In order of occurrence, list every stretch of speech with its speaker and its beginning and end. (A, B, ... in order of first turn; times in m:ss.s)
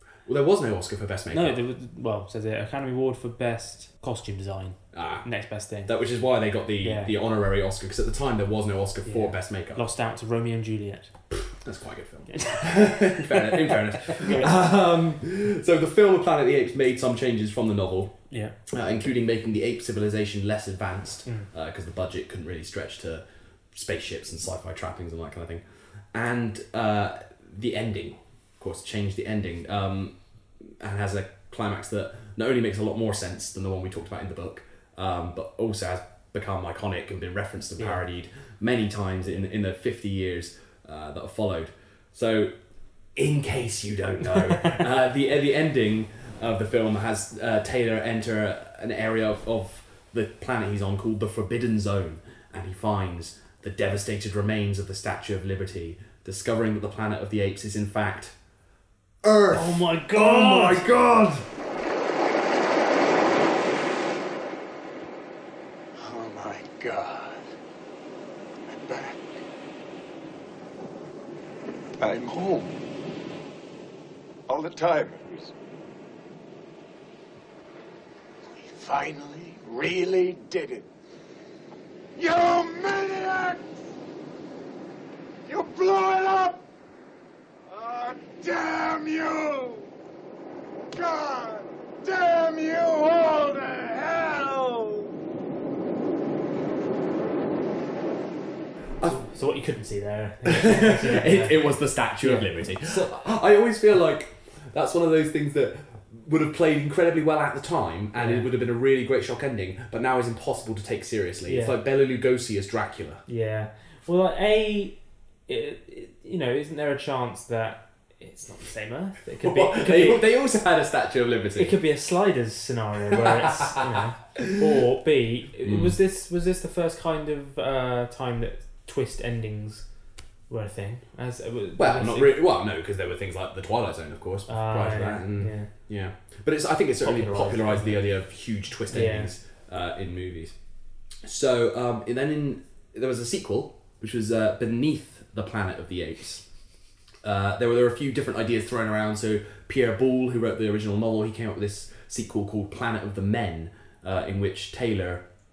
0:00.2-0:01.6 A
0:01.3-0:05.9 B
0:04.9-0:05.3 A
0:05.9-0:09.8 A
0:06.8-0:07.1 B
0:09.0-0:11.1 B
0:11.3-0:18.1 A
0:12.3-0:14.5 B
0:18.3-0:18.5 B
0:18.7-0:25.6 A
0:26.1-0:30.1 A
0:30.8-0:42.5 A
0:43.2-0:58.3 A
0:59.2-1:01.4 A
0:59.5-1:00.8 B
1:06.0-1:07.5 C
1:08.7-1:09.4 C
1:12.0-1:12.7 C
1:14.5-1:15.5 C
1:18.5-1:20.9 C
1:22.2-1:23.8 C
1:25.4-1:26.6 C
1:27.7-1:29.8 C
1:30.9-1:35.1 C
1:39.0-1:41.7 B
1:40.4-1:53.2 A
1:42.2-1:43.2 B
1:48.2-1:48.5 B
1:51.5-1:51.8 B
1:53.3-1:55.0 B
1:55.5-2:00.2 B
1:59.4-2:01.7 A
2:01.6-2:09.8 B
2:03.2-2:03.8 A
2:05.6-2:05.9 A
2:10.5-2:12.4 B
2:11.8-2:20.5 A
2:14.5-2:15.7 B
2:17.0-2:18.1 B
2:18.9-2:19.3 B
2:21.2-2:26.4 A
2:27.2-2:35.2 A